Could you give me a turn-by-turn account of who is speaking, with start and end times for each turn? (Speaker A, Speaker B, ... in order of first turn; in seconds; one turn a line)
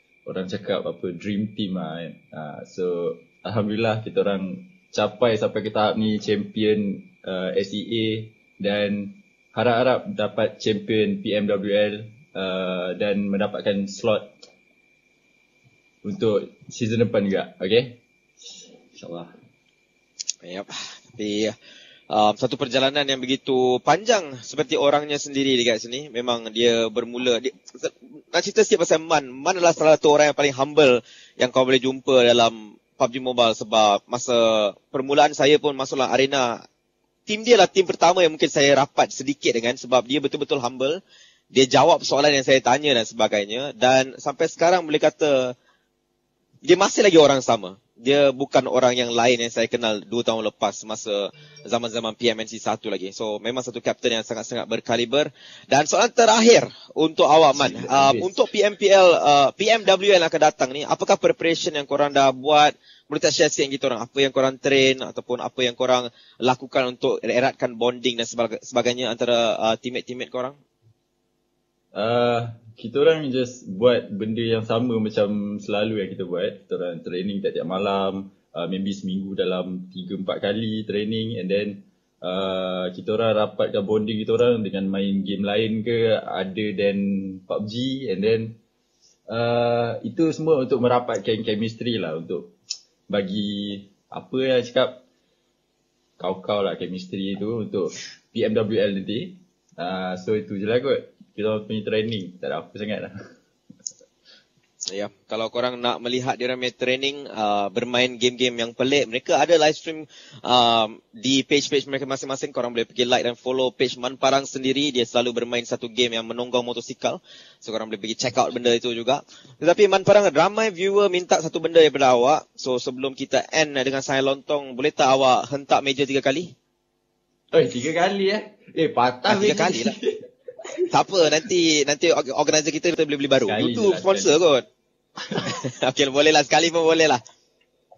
Speaker A: 0.2-14.3
Speaker A: 16.0-18.0
Speaker A: 18.9-19.3
Speaker B: 20.4-21.5
Speaker B: 22.1-36.6
Speaker B: 37.3-41.0
Speaker B: 41.5-45.5
Speaker B: 46.6-70.6
Speaker A: 57.5-58.3
Speaker A: 71.9-88.6
Speaker A: 89.3-92.5
Speaker A: 93.1-95.0
Speaker A: 96.2-103.1
Speaker B: 104.8-126.5
Speaker A: 127.5-130.1
Speaker B: 129.3-129.9
Speaker B: 130.9-134.6
Speaker A: 133.4-134.3
Speaker B: 135.3-137.2